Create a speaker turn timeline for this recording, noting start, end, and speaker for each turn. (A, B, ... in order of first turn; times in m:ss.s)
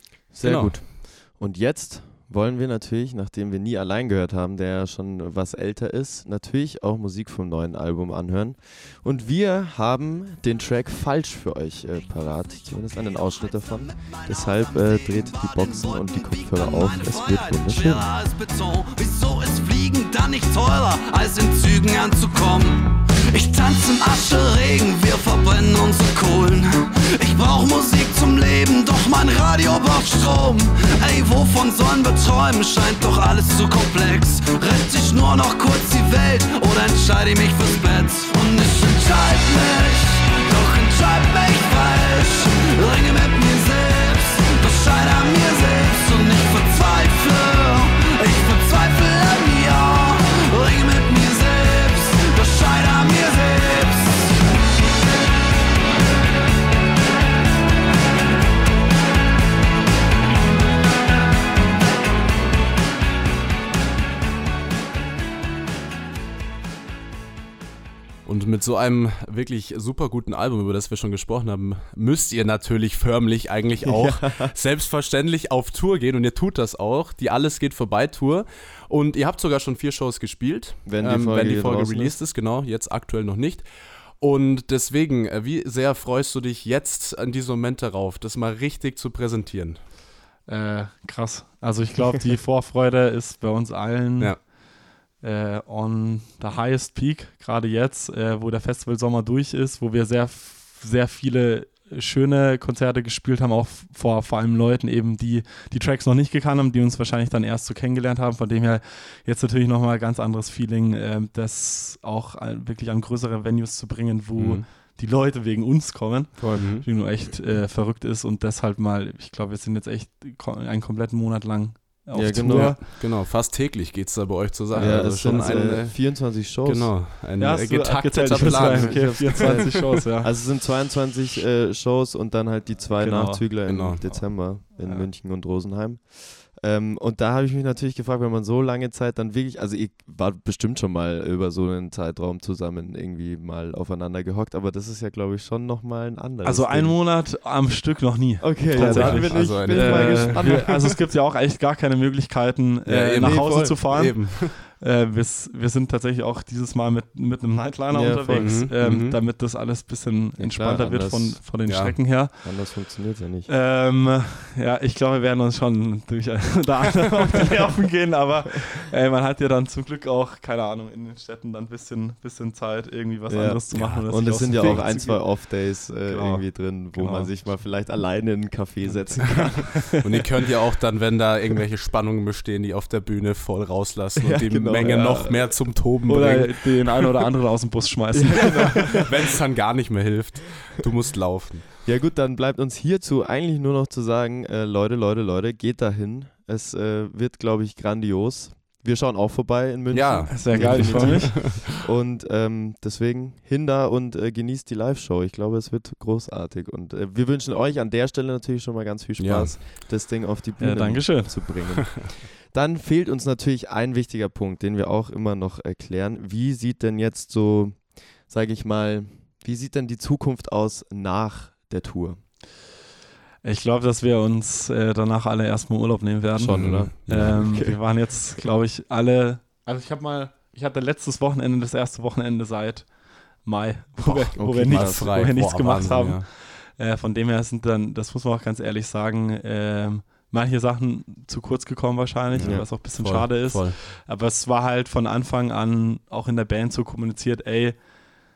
0:00.3-0:18.0 A
0:00.4-0:00.8 B
0:14.1-0:54.4 C
1:08.2-1:29.8 B
1:13.9-1:14.5 A
1:20.9-1:22.1 A
1:30.5-1:34.6 D
1:35.2-2:02.8 D
1:54.4-1:54.7 B
1:56.4-1:56.7 A
1:56.6-1:56.9 B
2:02.1-2:02.8 A
2:02.4-2:10.0 B
2:04.7-2:05.6 D
2:04.8-2:07.1 A
2:07.4-2:10.4 D
2:08.4-2:27.0 A
2:13.0-2:13.4 D
2:13.7-2:14.4 B
2:26.4-2:42.5 D
2:28.4-2:31.0 A
2:28.7-2:30.7 B
2:32.9-2:34.6 B
2:37.9-2:38.7 A
2:38.3-2:39.2 B
2:40.4-2:41.5 A
2:41.7-2:42.0 B
2:42.4-2:43.5 A
2:43.5-2:57.3 D
2:53.3-3:00.0 A
2:53.7-2:54.8 B
3:00.0-3:07.1 B
3:04.2-3:05.4 A
3:04.8-3:09.0 D
3:08.1-3:09.1 A
3:08.6-3:11.7 B
3:11.8-3:42.2 A
3:19.9-3:21.6 B
3:20.3-3:21.6 D
3:29.2-3:29.6 B
3:30.6-3:31.5 D
3:43.4-4:08.0 D
3:46.4-3:48.1 A
3:46.6-3:47.4 B
3:54.0-3:56.2 B
3:54.4-3:55.2 A
4:02.3-4:03.8 B
4:02.4-4:02.7 A